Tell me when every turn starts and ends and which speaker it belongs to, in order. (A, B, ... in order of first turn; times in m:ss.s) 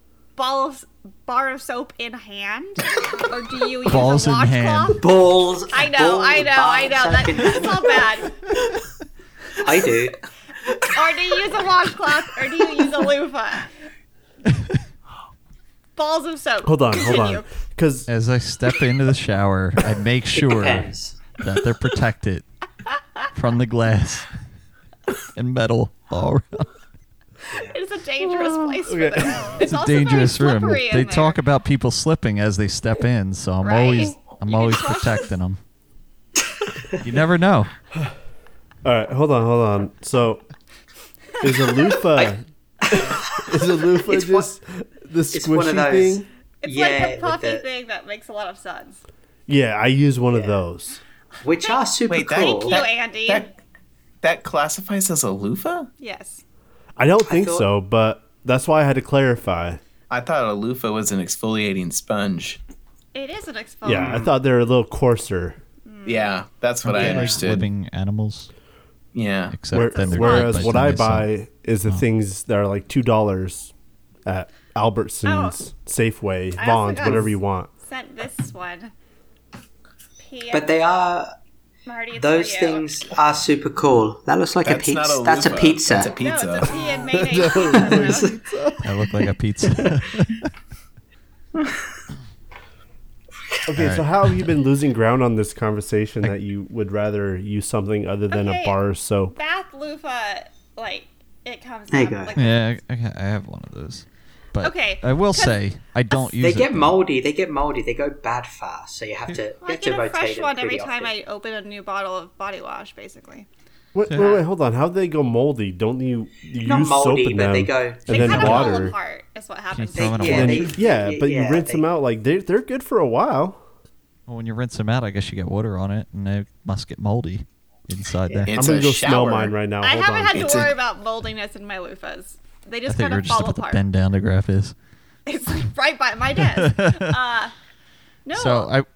0:00.4-0:05.0 A
0:03.8-0:05.0 B
0:05.0-0:08.1 C
0:05.7-0:08.4 A
0:09.6-0:10.3 C
0:10.9-0:13.7 A
0:16.0-0:17.5 A
0:16.6-0:18.1 D
0:18.1-0:22.5 B
0:20.3-0:21.3 C
0:23.3-0:24.3 B
0:25.4-0:26.7 B
0:27.5-0:27.8 C
0:27.6-0:31.4 A
0:28.2-0:29.5 D
0:29.6-0:35.6 B
0:33.6-0:35.3 A
0:37.0-0:37.7 B
0:38.8-0:40.4 D
0:41.4-0:46.3 D
0:42.1-0:44.5 C
0:45.3-0:47.6 C
0:46.6-0:49.0 A
0:49.5-0:51.0 D
0:50.3-0:50.6 C
0:51.4-0:52.8 C
0:52.1-0:53.5 E
0:52.4-0:53.5 A
0:54.2-0:55.9 E
0:56.0-0:56.4 A
0:57.0-0:59.8 D
0:57.2-0:57.7 C
1:00.1-1:02.6 E
1:03.1-1:04.3 A
1:03.8-1:05.6 D
1:03.9-1:04.3 C
1:05.9-1:06.3 A
1:06.0-1:07.7 E
1:06.9-1:08.5 B
1:07.0-1:07.4 C
1:09.1-1:09.6 E
1:09.5-1:11.3 B
1:09.7-1:13.7 D
1:09.9-1:10.7 A
1:14.2-1:17.7 D
1:15.2-1:15.6 A
1:16.6-1:18.9 A
1:20.2-1:20.7 A
1:20.5-1:21.4 C
1:21.9-1:23.0 A
1:22.2-1:26.2 C
1:24.6-1:26.7 E
1:26.2-1:28.4 A
1:26.7-1:28.4 C
1:27.2-1:28.8 D
1:28.8-1:30.5 B
1:29.8-1:30.0 C
1:33.7-1:39.3 D
1:33.8-1:34.1 B
1:38.3-1:42.7 A
1:41.9-1:42.4 C
1:42.4-1:47.0 B
1:44.6-1:45.6 A
1:46.4-1:51.1 C
1:49.6-1:53.5 A
1:53.9-1:59.0 D
1:54.2-1:54.4 C
1:56.6-1:58.8 C
1:58.1-1:58.7 B
1:58.1-2:00.7 A
1:59.7-2:00.7 B
1:59.9-2:01.8 C
2:00.2-2:03.6 D
2:04.3-2:08.6 B
2:08.5-2:09.5 E
2:08.6-2:10.7 D
2:09.8-2:13.8 A
2:10.3-2:10.8 E
2:12.9-2:14.8 B
2:15.3-2:17.5 A
2:16.6-2:17.0 B
2:18.3-2:18.7 A
2:18.4-2:18.9 B